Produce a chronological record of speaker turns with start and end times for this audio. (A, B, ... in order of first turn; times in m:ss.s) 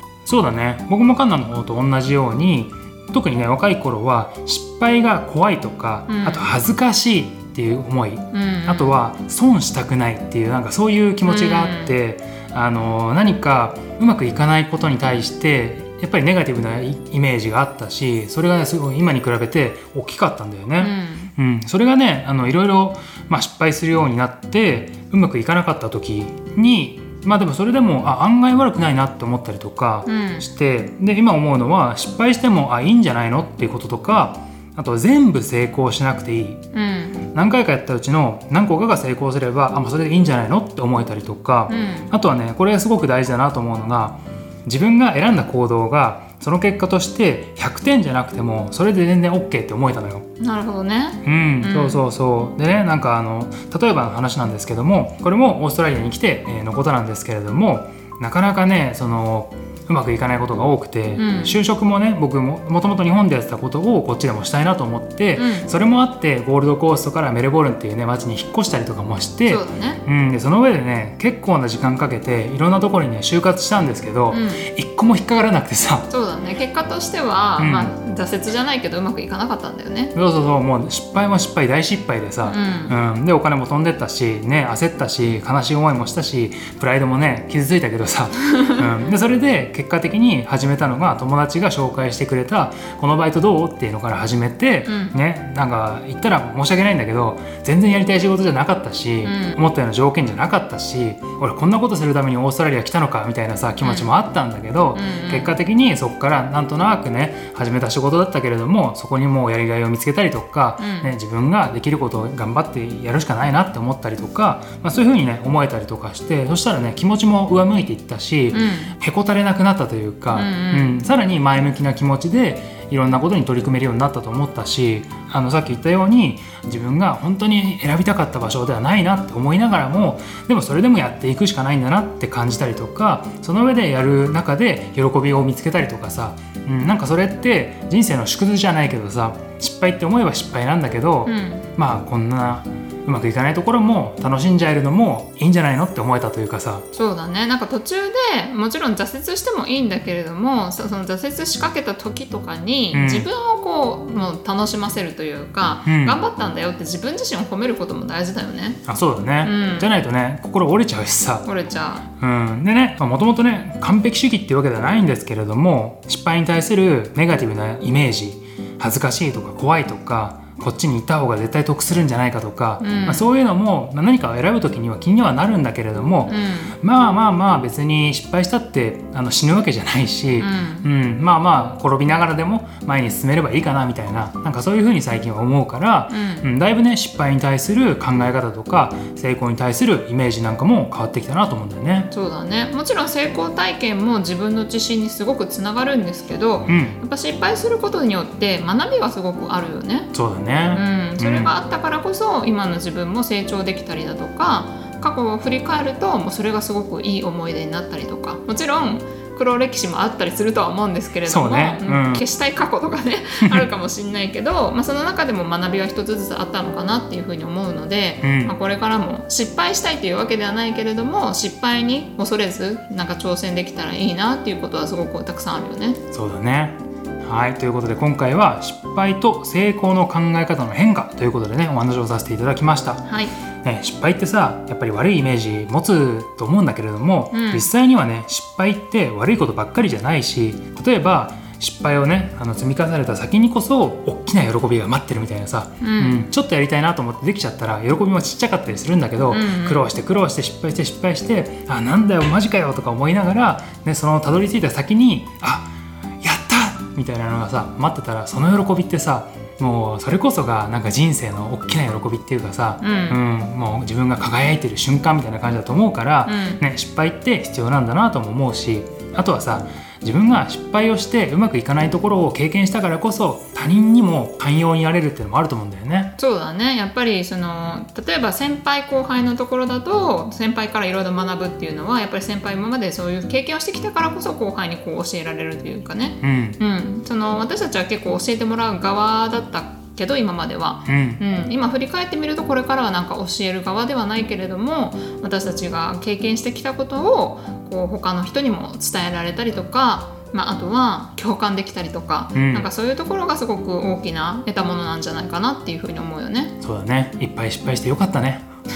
0:00.2-0:36.6 A
0:06.1-0:06.5 B
0:08.3-0:09.0 B
0:11.2-0:11.9 B
0:20.8-0:21.3 B
0:30.0-0:30.4 B
0:36.7-0:37.2 B
0:37.3-0:50.2 A
0:41.7-0:42.1 B
0:50.4-0:52.0 B
0:51.2-1:16.1 A
1:01.2-1:01.6 B
1:05.4-1:05.7 B
1:09.4-1:10.0 B
1:14.3-1:14.6 B
1:16.1-1:20.1 B
1:17.6-1:17.9 A
1:20.1-2:26.8 A
1:22.4-1:23.0 B
1:34.8-1:35.2 B
1:39.2-1:39.6 B
1:43.8-1:44.1 B
1:44.9-1:45.6 B
1:50.8-1:51.1 B
1:58.5-1:58.9 B
2:00.3-2:01.0 B
2:21.2-2:21.6 B
2:26.9-2:38.8 B
2:32.9-2:33.3 A
2:35.8-2:36.2 A
2:38.9-2:41.4 A
2:39.4-2:39.9 B
2:41.4-2:42.1 B
2:42.2-3:12.1 A
2:52.8-2:53.3 B
2:56.3-2:56.8 B
3:00.4-3:00.9 B
3:06.1-3:06.5 B
3:12.1-3:20.1 B
3:16.6-3:17.0 A
3:20.1-3:21.5 A
3:20.7-3:46.0 B
3:31.2-3:32.2 A
3:33.4-3:33.7 A
3:38.2-3:38.5 A
3:46.1-3:53.0 A
3:53.0-3:53.4 B
3:53.6-4:15.7 A
3:57.3-3:57.6 B
4:05.8-4:06.2 B
4:09.3-4:09.8 B
4:16.2-4:36.1 A
4:22.8-4:23.2 B
4:26.2-4:26.6 B
4:36.2-5:06.5 B
4:46.2-4:46.6 A
4:50.9-4:51.2 A
5:02.3-5:02.7 A
5:06.6-5:08.4 A